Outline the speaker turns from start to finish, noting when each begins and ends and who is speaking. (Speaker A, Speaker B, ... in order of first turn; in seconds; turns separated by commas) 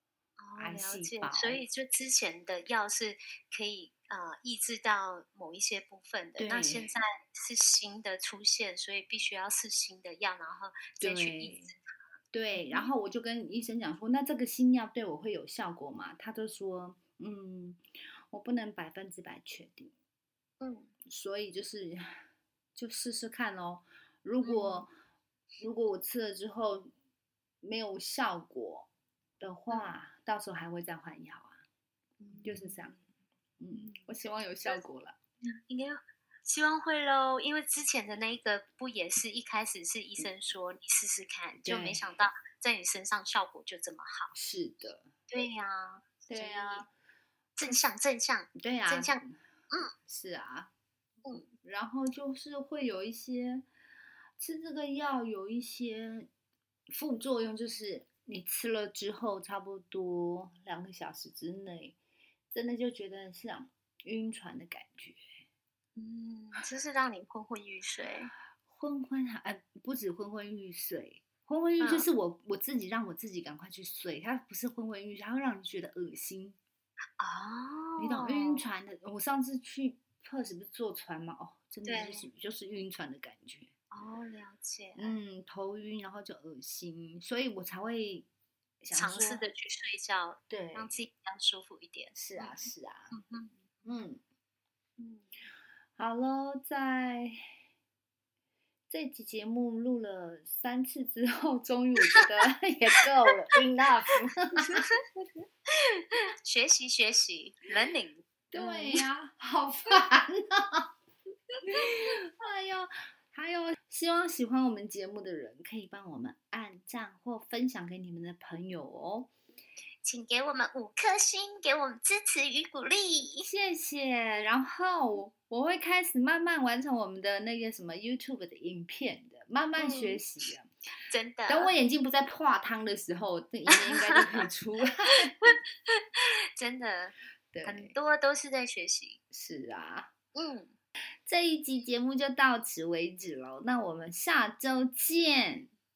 Speaker A: 0.4-11.8, Speaker B: 0.6-1.6, Speaker B: 6.4-6.9, Speaker B: 11.0-11.7, Speaker B: 12.3-17.8, Speaker A: 12.5-12.9, Speaker B: 18.3-19.9, Speaker A: 20.6-20.9, Speaker B: 21.1-22.2, Speaker B: 22.7-24.9, Speaker A: 24.4-24.9, Speaker B: 25.6-26.9, Speaker B: 27.6-28.9, Speaker B: 29.4-31.6, Speaker A: 32.2-33.0, Speaker B: 32.4-33.0, Speaker B: 33.6-35.2, Speaker A: 33.7-34.1, Speaker A: 35.5-44.3, Speaker B: 41.6-42.0, Speaker B: 44.3-45.1, Speaker A: 45.3-46.8, Speaker B: 46.3-46.9, Speaker A: 47.5-49.9, Speaker B: 48.6-49.4, Speaker B: 50.0-50.7, Speaker B: 51.5-53.6, Speaker B: 54.4-56.3, Speaker B: 56.9-62.0, Speaker B: 62.5-65.2, Speaker A: 66.0-68.3, Speaker B: 68.7-76.6, Speaker A: 71.8-72.1, Speaker A: 77.2-78.6, Speaker B: 78.0-83.7, Speaker A: 81.8-82.3, Speaker A: 83.9-85.1, Speaker B: 85.0-88.3, Speaker B: 88.8-89.5, Speaker A: 88.9-93.5, Speaker B: 90.5-91.0, Speaker B: 92.2-93.2, Speaker B: 93.8-94.2, Speaker A: 95.0-95.3, Speaker B: 96.0-97.5, Speaker B: 98.9-104.9, Speaker A: 104.7-109.0, Speaker B: 108.5-110.9, Speaker B: 111.7-119.3, Speaker A: 120.0-123.5, Speaker B: 123.4-130.7, Speaker A: 129.8-130.2, Speaker A: 131.1-131.7, Speaker B: 131.5-135.5, Speaker A: 133.7-134.4, Speaker A: 135.4-139.2, Speaker B: 137.5-137.9, Speaker B: 139.3-140.1, Speaker A: 140.3-140.7, Speaker B: 141.2-145.7